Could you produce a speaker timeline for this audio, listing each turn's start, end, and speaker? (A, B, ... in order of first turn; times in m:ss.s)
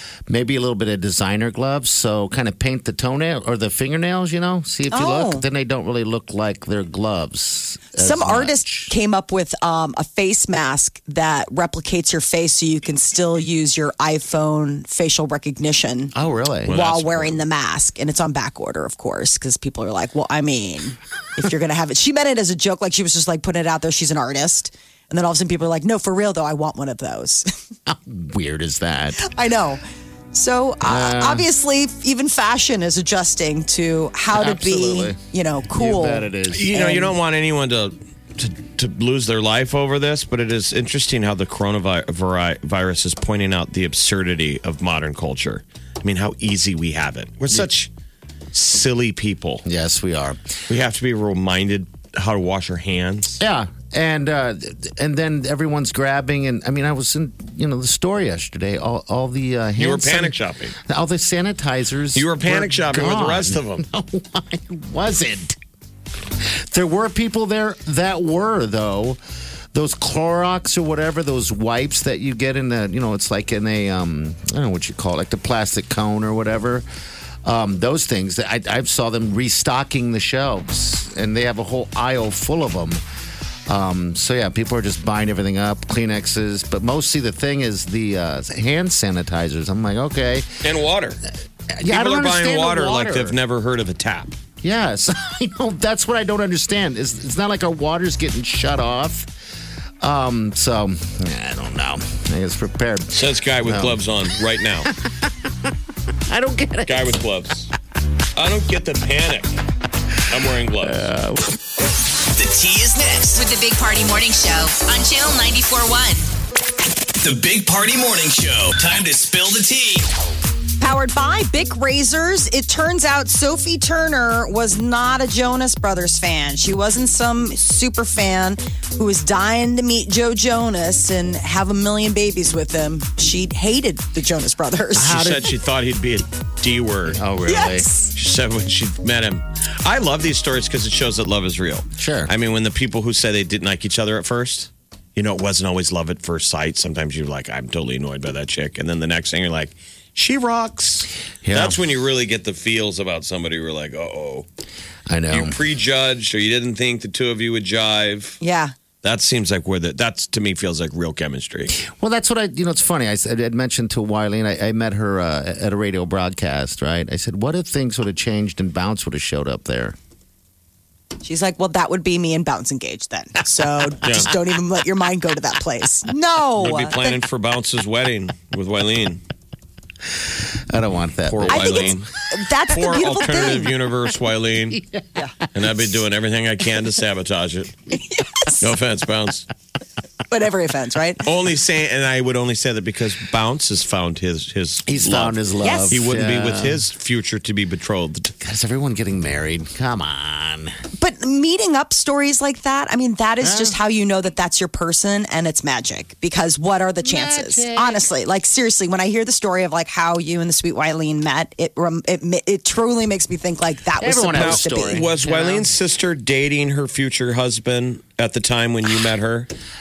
0:00.3-0:08.9 A
0:04.9-0:05.4 B
0:07.9-0:16.1 B
0:16.1-0:16.8 A
0:16.6-0:17.4 C
0:16.7-0:27.5 B
0:27.9-0:29.2 A
0:29.2-0:29.8 B
0:30.3-0:37.1 B
0:30.8-0:31.4 A
0:34.3-0:35.2 A
0:35.7-0:37.0 A
0:36.5-0:47.9 C
0:48.5-0:49.6 C
0:49.6-0:50.5 A
0:50.7-0:53.4 C
0:53.4-1:05.6 A
0:59.8-1:00.7 C
1:02.1-1:03.8 C
1:06.5-1:09.2 A
1:09.7-1:16.8 A
1:17.4-1:23.0 A
1:23.7-1:30.6 A
1:30.6-1:31.2 C
1:31.7-1:33.4 A
1:31.8-1:34.3 C
1:34.6-1:39.3 A
1:40.0-1:44.0 A
1:43.1-1:44.9 C
1:46.3-1:47.1 A
1:46.8-1:47.7 C
1:48.4-1:49.6 C
1:50.3-1:51.0 C
1:50.8-1:51.5 A
1:52.3-1:53.4 D
1:53.3-1:56.3 E
1:57.2-2:00.1 D
2:00.8-2:15.2 B
2:15.0-2:17.2 C
2:15.0-2:15.5 A
2:17.1-2:17.8 A
2:17.5-2:18.1 B
2:18.1-2:34.4 C
2:22.0-2:22.3 A
2:31.4-2:31.8 A
2:35.1-2:35.6 A
2:35.3-2:38.4 C
2:38.4-2:38.7 B
2:39.0-2:41.8 C
2:41.8-2:50.0 A
2:51.2-2:57.2 B
2:54.0-2:54.3 C
2:56.6-2:59.2 C
3:00.7-3:02.0 A
3:01.3-3:02.1 C
3:01.5-3:03.7 B
3:02.7-3:04.8 C
3:04.7-3:05.0 A
3:05.5-3:07.7 C
3:08.1-3:08.6 B
3:08.6-3:09.5 C
3:10.3-3:11.2 B
3:11.2-3:18.3 C
3:14.8-3:16.8 A
3:15.6-3:15.9 B
3:18.4-3:20.8 A
3:21.0-3:35.0 B
3:23.4-3:23.8 A
3:27.0-3:28.0 A
3:34.0-3:35.7 A
3:34.3-3:39.5 C